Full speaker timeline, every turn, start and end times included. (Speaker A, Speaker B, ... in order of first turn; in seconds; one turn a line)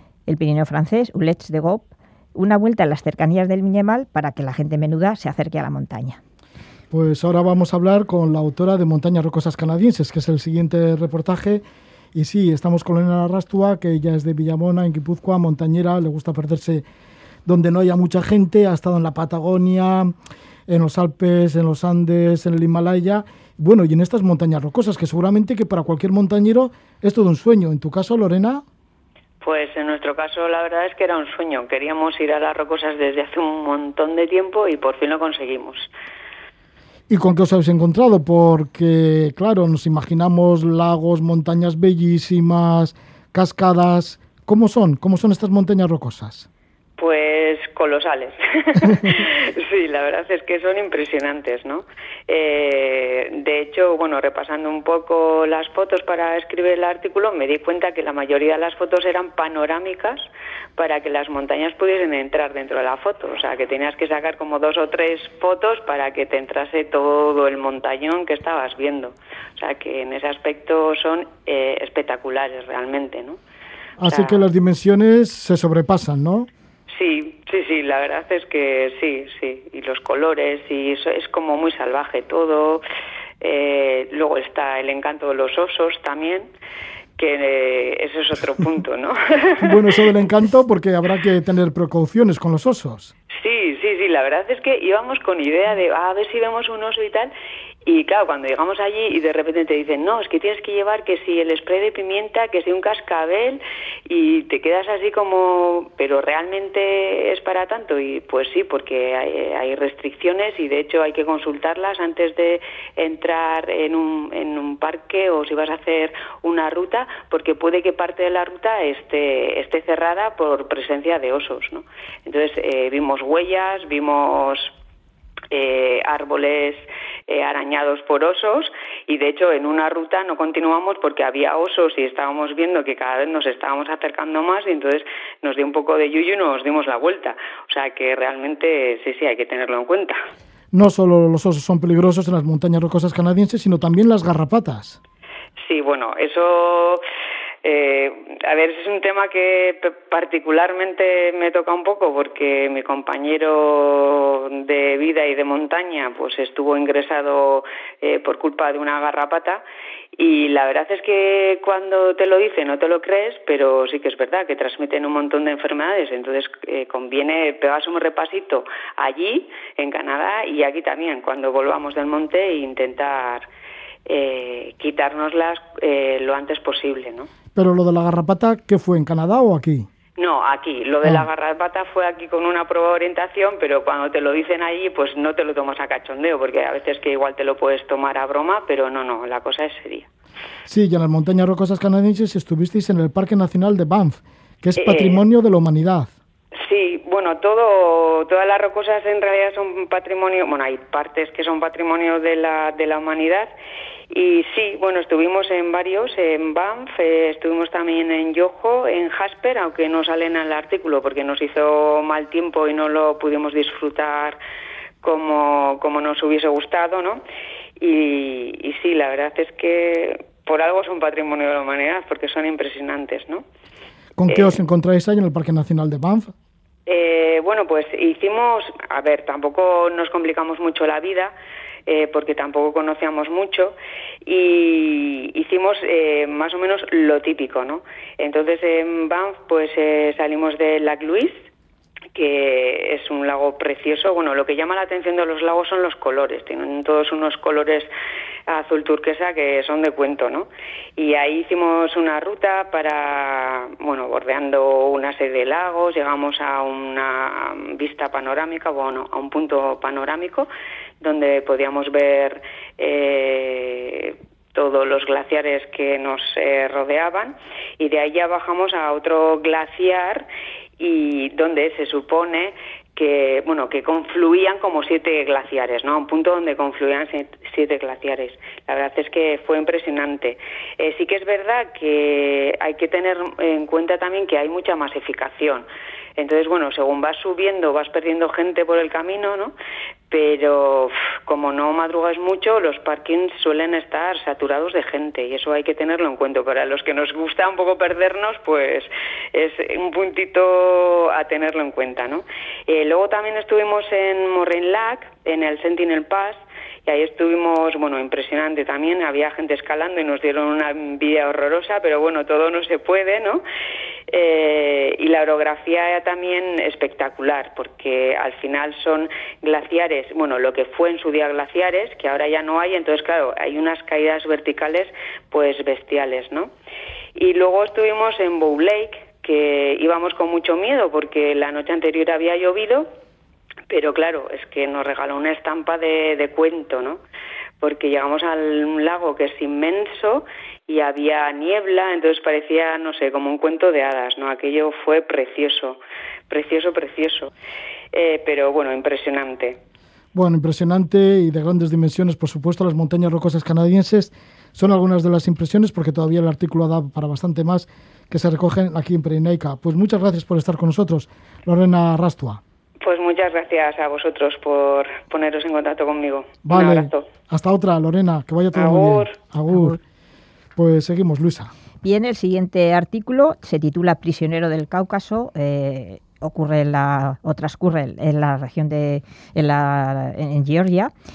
Speaker A: 0.3-6.2
Speaker B: 6.9-11.6
Speaker B: 12.1-16.8
Speaker B: 17.4-20.1
Speaker B: 20.7-28.6
Speaker C: 29.4-35.9
Speaker B: 37.1-46.5
Speaker C: 47.0-73.4
Speaker B: 74.0-76.5
Speaker C: 74.0-74.4
Speaker C: 76.9-82.8
Speaker C: 83.4-86.5
Speaker C: 87.2-90.0
Speaker B: 89.6-93.1
Speaker C: 93.4-97.3
Speaker C: 97.8-124.7
Speaker C: 125.5-140.3
Speaker B: 140.7-145.0
Speaker C: 145.6-147.0
Speaker C: 147.6-159.6
Speaker C: 160.2-173.5
Speaker C: 174.1-177.3
Speaker B: 177.5-179.9
Speaker C: 180.2-190.1
Speaker B: 190.7-196.1
Speaker C: 194.8-195.2
Speaker C: 196.6-203.5
Speaker C: 204.1-214.4
Speaker C: 215.0-217.2
Speaker C: 217.8-223.4
Speaker B: 224.2-226.3
Speaker C: 224.3-224.6
Speaker C: 226.8-231.3
Speaker C: 231.9-241.5
Speaker C: 242.1-247.9
Speaker C: 248.5-260.5
Speaker C: 261.0-270.2
Speaker C: 270.8-289.5
Speaker C: 290.1-313.4
Speaker C: 314.1-326.5
Speaker C: 327.1-332.9
Speaker C: 333.7-337.0
Speaker C: 337.6-347.3
Speaker C: 347.9-349.6
Speaker B: 350.1-362.4
Speaker C: 362.8-367.1
Speaker B: 366.4-369.8
Speaker C: 368.5-369.1
Speaker B: 370.6-371.5
Speaker A: 371.8-380.9